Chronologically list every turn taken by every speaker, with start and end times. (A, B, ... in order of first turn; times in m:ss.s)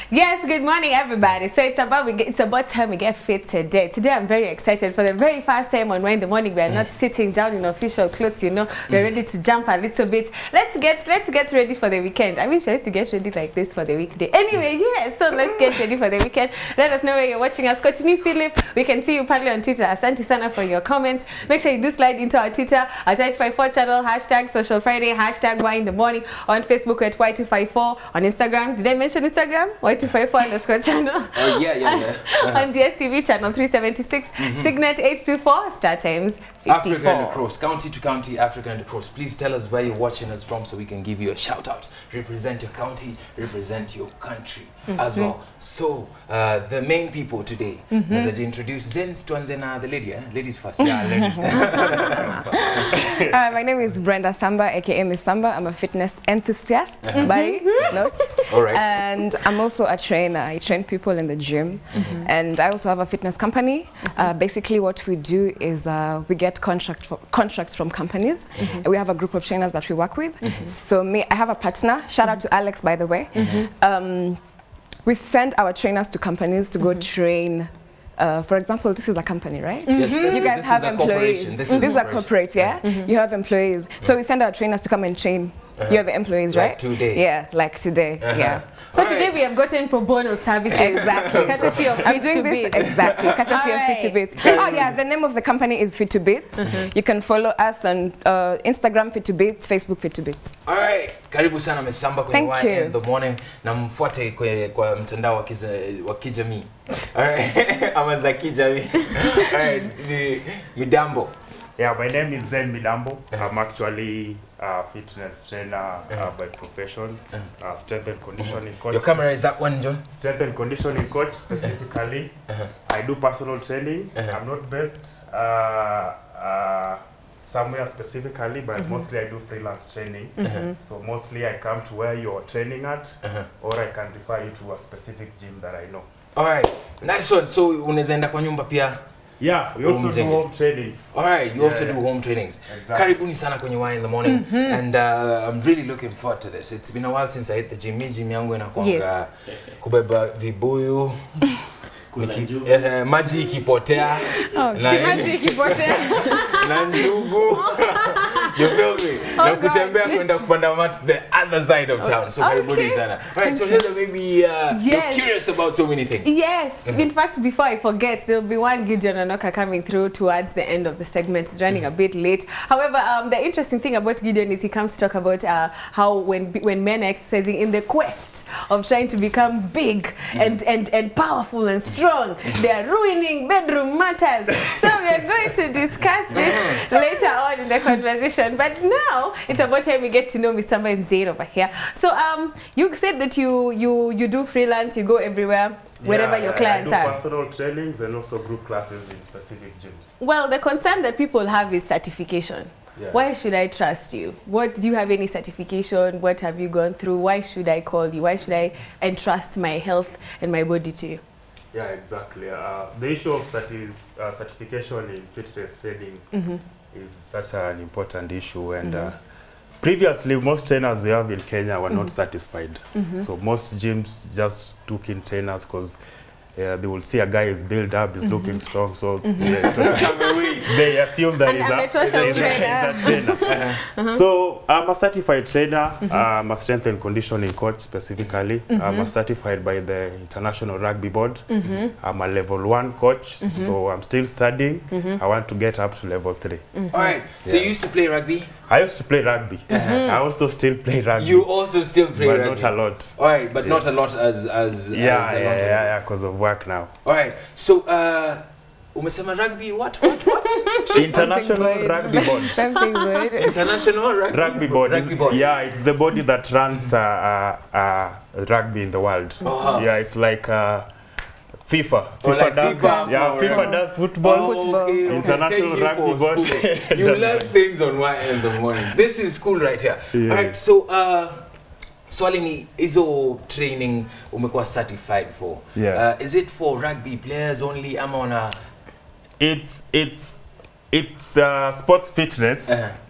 0:00.1-0:37.4 A
0:31.3-0:32.7 B
0:34.4-0:34.7 B
0:36.7-0:52.8 B
0:44.9-0:45.3 A
0:47.9-0:48.3 A
0:50.8-0:53.3 C
0:50.8-0:51.7 D
0:52.6-1:14.4 D
0:57.0-0:57.3 B
0:57.2-0:58.0 A
0:58.5-0:59.0 B
1:01.9-1:02.3 B
1:08.6-1:08.8 B
1:10.4-1:10.7 B
1:13.4-1:13.7 B
1:15.0-1:28.6 D
1:19.9-1:20.5 A
1:19.9-1:22.8 B
1:21.7-1:22.0 A
1:21.8-1:22.2 C
1:22.8-1:23.1 A
1:25.8-1:27.2 B
1:28.2-1:29.4 B
1:28.9-1:34.7 A
1:30.7-1:31.8 B
1:30.7-1:40.5 D
1:34.4-1:34.7 B
1:40.7-1:51.3 B
1:42.3-1:43.0 D
1:51.8-1:59.4 C
1:58.4-2:00.0 B
2:00.1-2:16.1 C
2:08.8-2:09.1 A
2:10.4-2:10.8 A
2:10.4-2:10.7 B
2:16.4-2:19.0 B
2:19.4-2:22.0 C
2:19.8-2:20.4 B
2:21.1-2:31.4 B
2:22.7-2:23.2 C
2:24.2-2:24.8 A
2:28.8-2:29.0 A
2:32.1-2:32.8 C
2:32.2-2:46.3 B
2:34.3-2:35.5 D
2:34.8-2:40.3 A
2:42.0-2:43.1 A
2:43.5-2:43.8 D
2:44.7-2:45.4 A
2:46.2-3:17.2 A
3:06.3-3:06.8 B
3:16.0-3:20.1 C
3:20.2-3:31.2 A
3:23.0-3:23.2 C
3:31.7-3:36.3 C
3:36.3-3:36.6 A
3:36.9-3:39.2 C
3:38.8-3:39.1 A
3:39.8-3:46.0 C
3:41.9-3:42.1 A
3:43.0-3:43.3 A
3:46.6-3:53.4 C
3:48.2-3:48.6 A
3:49.2-3:50.5 A
3:49.4-3:50.8 B
3:51.4-3:54.2 A
3:52.0-3:53.8 B
3:54.1-4:06.7 C
3:58.7-3:59.1 A
4:01.5-4:01.9 A
4:03.4-4:03.7 A
4:04.9-4:05.2 A
4:06.8-4:07.2 A
4:06.9-4:08.5 B
4:07.4-4:07.7 C
4:08.7-4:11.5 C
4:09.7-4:10.0 B
4:09.7-4:10.2 A
4:11.2-4:15.9 B
4:12.1-4:13.8 C
4:14.9-4:16.9 C
4:17.0-4:21.3 B
4:21.0-4:22.6 C
4:21.0-4:23.6 D
4:23.4-4:25.5 B
4:24.3-4:30.9 C
4:29.4-4:29.8 B
4:29.5-4:29.8 A
4:31.7-4:37.6 C
4:32.2-4:41.4 B
4:32.8-4:35.4 D
4:40.1-4:40.6 C
4:42.1-4:48.6 B
4:45.8-4:46.0 C
4:49.4-4:50.4 C
4:50.9-4:52.8 C
4:52.7-4:53.0 B